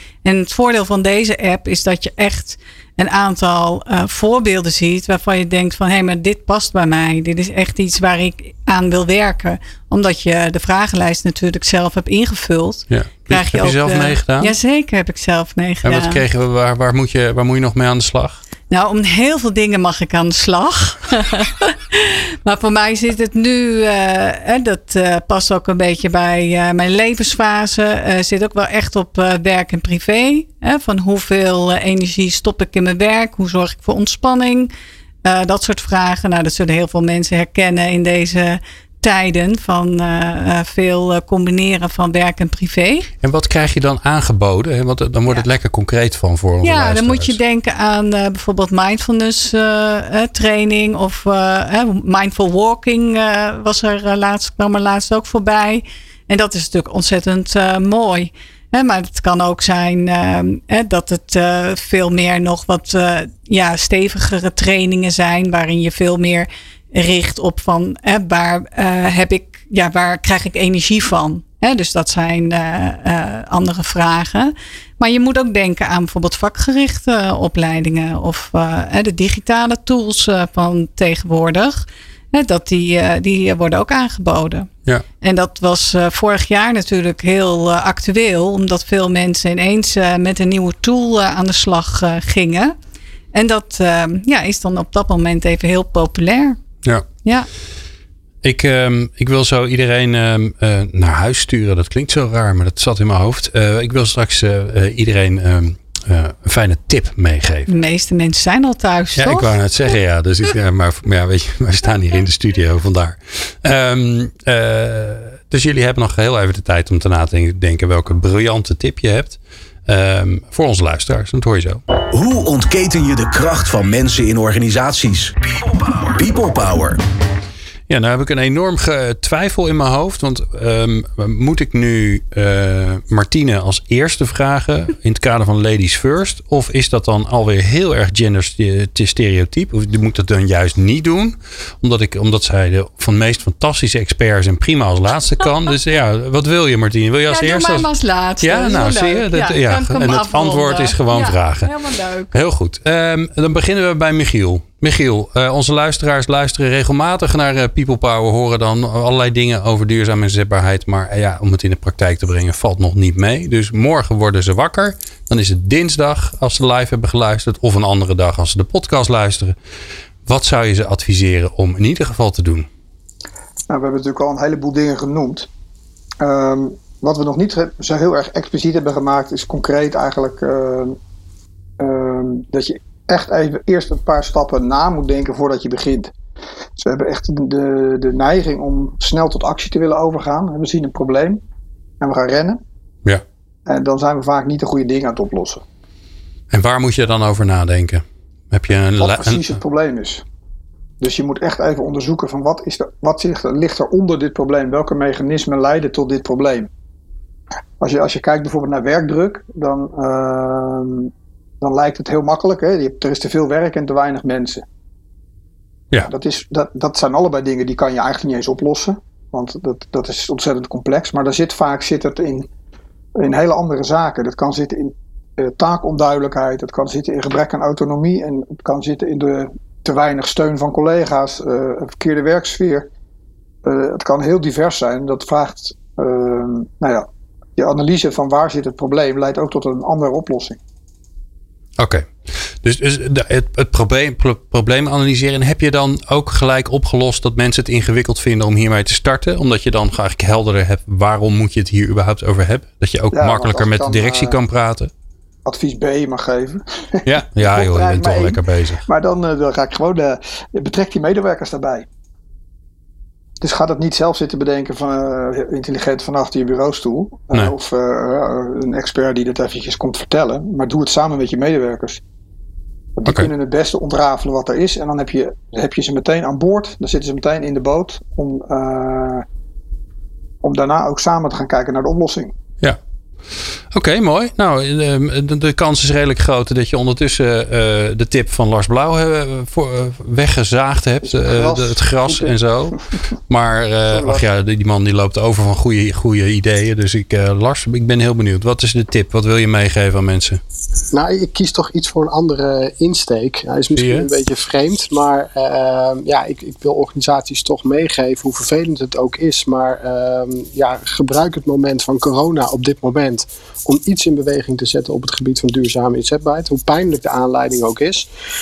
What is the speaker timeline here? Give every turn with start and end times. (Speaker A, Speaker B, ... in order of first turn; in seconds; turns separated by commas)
Speaker A: 0.2-16.2, Speaker B: 12.9-14.5, Speaker B: 15.8-18.4, Speaker A: 18.7-34.7, Speaker A: 35.2-43.1, Speaker B: 43.2-47.4, Speaker A: 46.6-84.7, Speaker A: 85.2-92.8, Speaker A: 93.3-96.6, Speaker B: 98.4-107.7, Speaker A: 107.7-109.6, Speaker B: 109.2-121.8, Speaker C: 122.1-127.0, Speaker B: 127.9-147.9, Speaker A: 147.3-152.3, Speaker B: 148.4-151.7, Speaker B: 152.3-169.5, Speaker B: 170.2-172.7, Speaker D: 173.7-175.5, Speaker D: 176.2-180.9, Speaker D: 181.8-186.1, Speaker D: 186.8-191.4, Speaker D: 192.0-192.6, Speaker D: 193.7-195.6, Speaker B: 196.5-199.5, Speaker D: 199.0-200.2, Speaker D: 201.0-206.7, Speaker D: 207.8-214.6, Speaker D: 216.0-222.5, Speaker D: 223.2-232.9, Speaker D: 233.6-237.1, Speaker D: 237.6-240.6, Speaker B: 241.8-254.9, Speaker D: 253.1-254.4, Speaker D: 255.4-261.9, Speaker B: 257.0-258.8, Speaker D: 263.4-272.0, Speaker D: 272.9-279.2, Speaker D: 280.4-282.3, Speaker B: 283.7-300.4, Speaker D: 291.0-292.8, Speaker D: 293.9-294.2, Speaker E: 300.9-318.1, Speaker B: 303.7-304.1